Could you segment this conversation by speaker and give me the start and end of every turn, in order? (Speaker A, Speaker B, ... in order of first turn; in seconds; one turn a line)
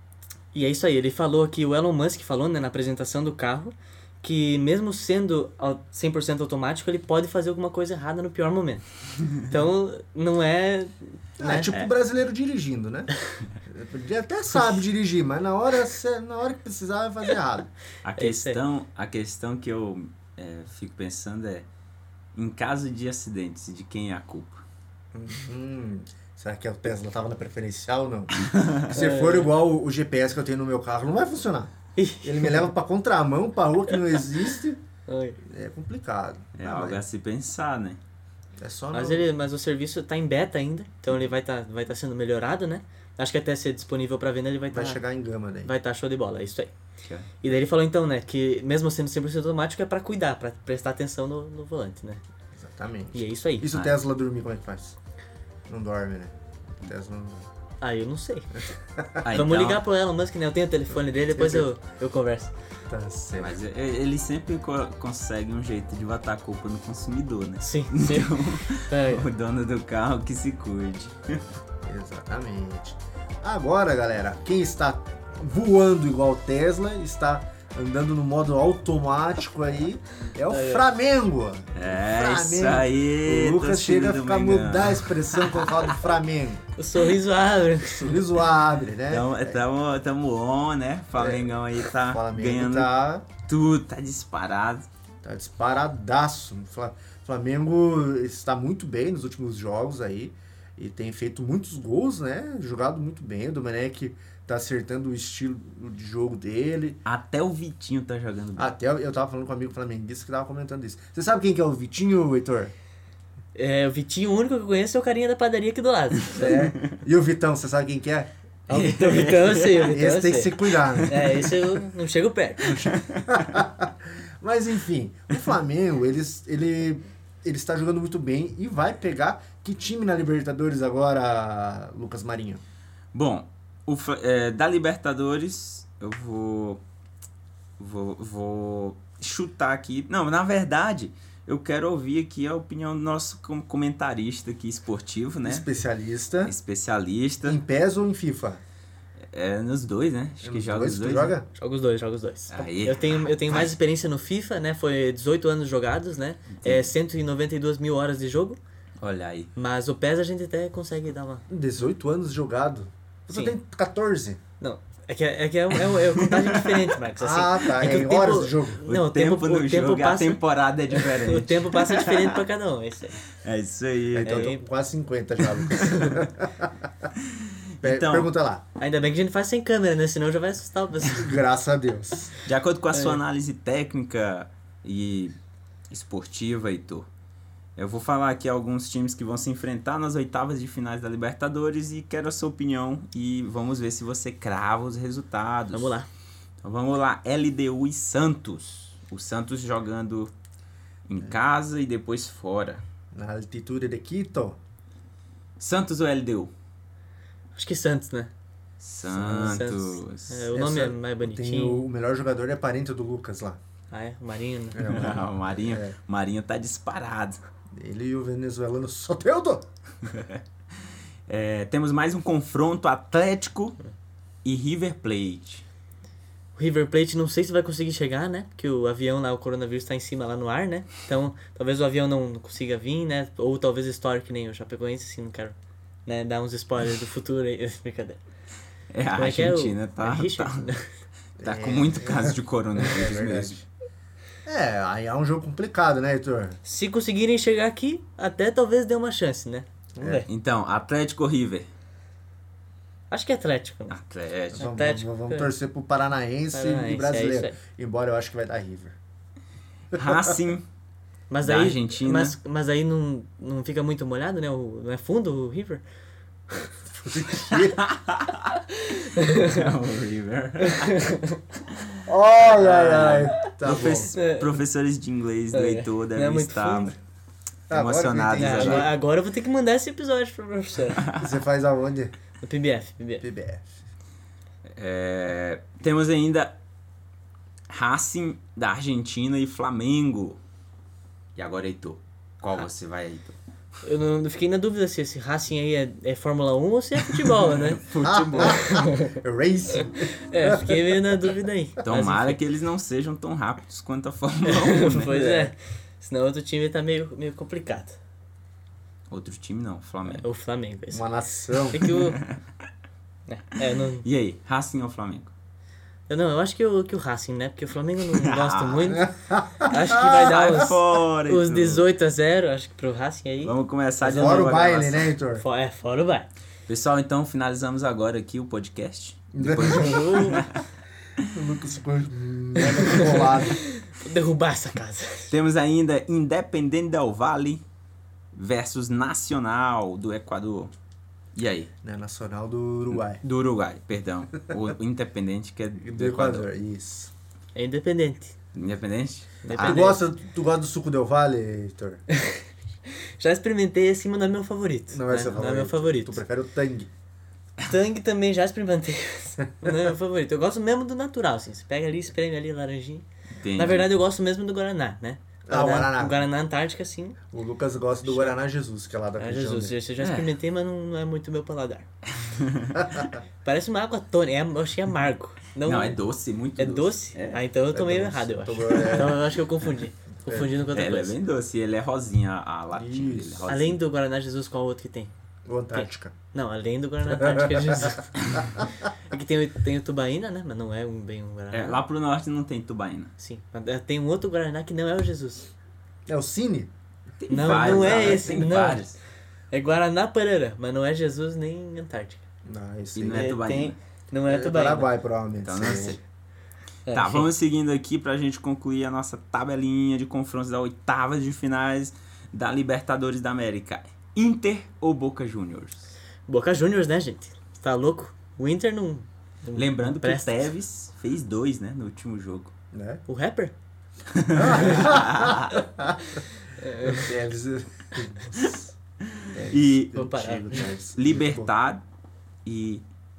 Speaker A: 0.5-8.8
Speaker A: 9.4-11.7
Speaker B: 11.4-13.1
Speaker B: 13.7-17.7
Speaker C: 18.0-21.7
Speaker A: 18.2-18.6
Speaker C: 22.4-24.7
Speaker B: 25.1-34.8
Speaker C: 28.4-28.8
Speaker A: 28.9-29.5
Speaker A: 32.0-32.7
Speaker A: 34.1-34.4
Speaker A: 35.1-35.4
Speaker B: 35.4-37.0
Speaker C: 36.6-38.0
Speaker B: 38.6-39.2
Speaker A: 38.9-45.0
Speaker B: 44.7-45.7
Speaker A: 45.6-46.7
Speaker A: 47.4-52.2
Speaker B: 52.6-55.0
Speaker A: 53.1-53.7
Speaker B: 55.7-57.5
Speaker A: 57.8-58.7
Speaker B: 59.0-59.2
Speaker C: 59.2-59.8
Speaker A: 59.3-62.5
Speaker B: 61.3-61.7
Speaker B: 62.9-63.6
Speaker C: 63.4-71.4
Speaker A: 67.6-69.2
Speaker B: 71.8-86.6
Speaker A: 80.5-80.8
Speaker C: 81.8-85.9
Speaker A: 86.8-88.3
Speaker B: 87.9-89.6
Speaker C: 89.1-92.9
Speaker B: 91.2-93.2
Speaker C: 93.5-94.9
Speaker B: 95.2-107.0
Speaker C: 107.0-108.8
Speaker B: 108.6-112.7
Speaker A: 113.5-116.6
Speaker B: 116.3-118.3
Speaker A: 118.7-122.8
Speaker C: 118.7-119.9
Speaker B: 119.7-121.4
Speaker C: 121.0-121.5
Speaker B: 122.6-132.6
Speaker C: 122.9-123.2
Speaker C: 133.1-136.8
Speaker C: 137.8-145.7
Speaker B: 145.5-146.6
Speaker C: 146.5-147.6
Speaker B: 147.4-148.6
Speaker C: 149.3-151.4
Speaker B: 150.4-151.5
Speaker A: 151.6-158.6
Speaker C: 152.5-153.7
Speaker C: 156.5-156.9
Speaker C: 159.0-159.5
Speaker A: 159.6-161.5
Speaker B: 161.5-164.4
Speaker A: 164.6-173.2
Speaker C: 165.8-166.9
Speaker B: 167.2-168.8
Speaker C: 168.9-172.4
Speaker C: 173.3-174.5
Speaker B: 174.1-177.1
Speaker A: 174.2-174.6
Speaker A: 175.9-176.2
Speaker C: 177.2-178.3
Speaker B: 177.8-178.6
Speaker A: 178.8-181.4
Speaker B: 181.1-182.3
Speaker C: 182.5-185.4
Speaker A: 182.9-183.2
Speaker C: 185.9-187.1
Speaker C: 187.8-196.0
Speaker A: 195.7-196.1
Speaker C: 196.6-200.3
Speaker C: 201.1-202.8
Speaker B: 203.1-204.6
Speaker C: 205.6-206.5
Speaker A: 207.6-208.3
Speaker C: 208.8-210.5
Speaker B: 209.1-209.7
Speaker A: 209.4-211.8
Speaker B: 210.5-213.6
Speaker A: 213.9-214.9
Speaker B: 214.8-215.9
Speaker C: 214.8-217.4
Speaker B: 217.8-219.7
Speaker C: 220.0-223.8
Speaker C: 224.4-225.7
Speaker A: 226.6-238.2
Speaker C: 238.9-240.7
Speaker A: 239.2-240.9
Speaker B: 241.4-243.7
Speaker C: 241.4-243.6
Speaker B: 244.4-246.6
Speaker A: 246.7-250.3
Speaker B: 250.0-250.2
Speaker C: 250.3-251.7
Speaker A: 253.1-254.0
Speaker C: 253.9-254.7
Speaker B: 254.5-259.0
Speaker A: 254.6-255.5
Speaker A: 256.5-257.6
Speaker C: 259.9-260.7
Speaker A: 261.3-265.8
Speaker C: 261.4-262.4
Speaker B: 266.9-267.8
Speaker C: 267.5-268.6
Speaker A: 268.8-269.7
Speaker C: 269.4-271.0
Speaker A: 270.6-271.4
Speaker B: 272.1-274.1
Speaker A: 272.6-273.4
Speaker C: 272.7-276.9
Speaker A: 274.1-274.6
Speaker A: 275.5-277.0
Speaker B: 277.7-278.9
Speaker C: 277.7-278.9
Speaker A: 278.3-281.1
Speaker C: 281.0-281.3
Speaker B: 281.1-282.1
Speaker A: 282.4-283.2
Speaker B: 283.2-283.8
Speaker C: 284.7-286.6
Speaker C: 287.7-290.4
Speaker C: 291.4-293.4
Speaker A: 293.8-299.1
Speaker C: 297.1-298.8
Speaker B: 298.0-300.9
Speaker A: 300.1-302.4
Speaker C: 301.9-305.5
Speaker A: 304.4-308.0
Speaker C: 309.1-310.2
Speaker A: 310.1-311.1
Speaker B: 310.9-311.9
Speaker A: 311.7-312.2
Speaker C: 311.8-312.4
Speaker A: 313.3-314.1
Speaker C: 313.6-315.3
Speaker A: 316.1-324.6
Speaker C: 318.1-319.0
Speaker B: 319.0-320.6
Speaker C: 319.9-321.9
Speaker C: 323.4-325.1
Speaker B: 324.0-325.4
Speaker A: 325.4-326.3
Speaker C: 326.7-330.6
Speaker B: 329.3-330.5
Speaker A: 329.7-330.5
Speaker B: 331.2-333.6
Speaker A: 332.9-335.3
Speaker C: 335.3-337.6
Speaker C: 338.3-340.7
Speaker C: 341.4-341.7
Speaker B: 341.8-343.2
Speaker C: 342.9-346.5
Speaker B: 345.8-347.1
Speaker A: 347.6-348.4
Speaker C: 348.5-349.9
Speaker A: 349.4-350.0
Speaker B: 349.6-352.1
Speaker A: 352.1-356.2
Speaker B: 354.9-356.9
Speaker A: 357.6-367.2
Speaker C: 363.4-363.9
Speaker B: 365.5-366.2
Speaker B: 367.3-369.8
Speaker A: 368.0-368.4
Speaker A: 369.2-371.9
Speaker C: 370.0-370.3
Speaker C: 372.1-372.9
Speaker B: 372.8-373.1
Speaker A: 373.4-376.0
Speaker C: 375.6-377.4
Speaker A: 376.6-381.1
Speaker B: 377.7-379.3
Speaker B: 380.3-380.5
Speaker C: 380.7-383.8
Speaker B: 382.7-383.6
Speaker A: 383.5-385.1
Speaker B: 385.5-386.1
Speaker A: 385.7-391.8
Speaker B: 387.2-388.7
Speaker C: 391.5-393.1
Speaker A: 393.2-395.5
Speaker B: 396.1-396.7
Speaker C: 397.2-399.0
Speaker A: 397.3-398.8
Speaker B: 397.3-398.5
Speaker A: 399.5-402.2
Speaker B: 402.5-403.4
Speaker C: 402.9-403.8
Speaker A: 403.1-404.9
Speaker B: 404.3-406.0
Speaker C: 405.4-406.0
Speaker A: 406.9-407.3
Speaker C: 406.9-415.9
Speaker A: 416.3-420.5
Speaker C: 419.6-422.5
Speaker B: 422.7-423.0
Speaker A: 423.1-423.5
Speaker C: 424.1-425.6
Speaker B: 424.3-428.8
Speaker A: 426.6-427.1
Speaker C: 429.1-430.0
Speaker B: 429.3-431.5
Speaker A: 429.9-430.7
Speaker C: 430.9-431.8
Speaker C: 432.4-432.8